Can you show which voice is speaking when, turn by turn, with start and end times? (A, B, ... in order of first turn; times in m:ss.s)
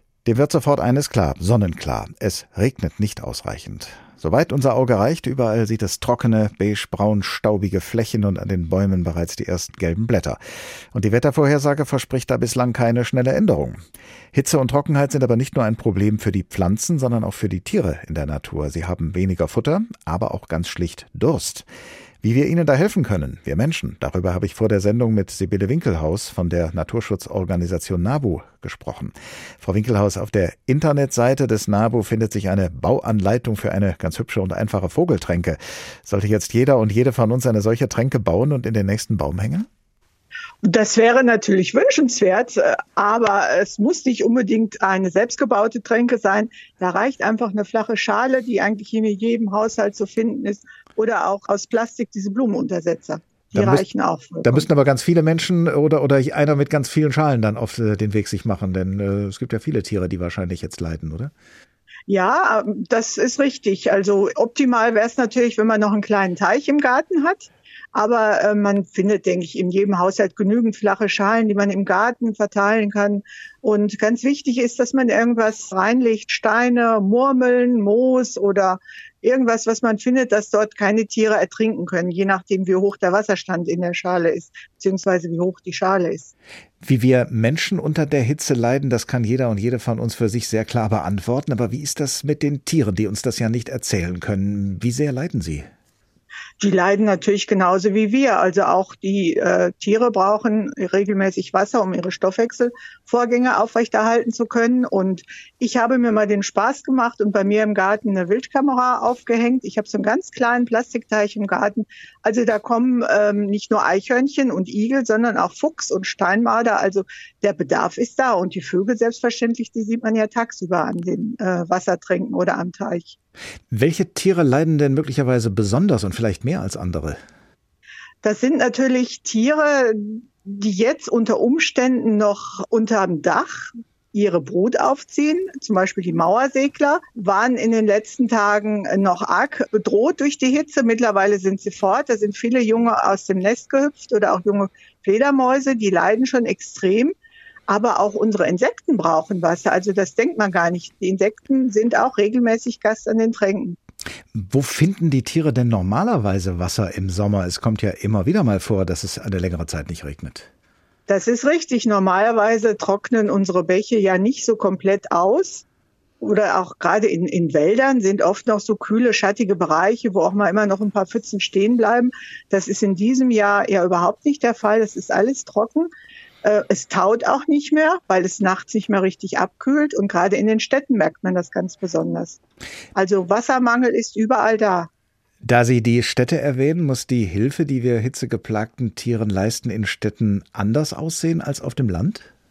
0:00.2-0:10.4 A
0:10.9-0:13.8 A
0:14.3-0:21.6 A
0:22.2-0:39.7 A
0:40.6-0:54.6 B
0:53.5-0:53.8 A
0:54.4-1:01.3 A
1:02.1-1:26.3 B
1:26.8-1:35.7 A
1:36.6-2:03.2 B
2:03.7-2:07.2 A
2:08.2-2:27.1 B
2:27.7-2:33.8 B
2:34.3-2:40.5 A
2:41.1-2:45.6 B
2:46.2-2:55.9 B
2:56.4-3:02.4 B
3:02.9-3:04.9 B
3:05.4-3:12.3 A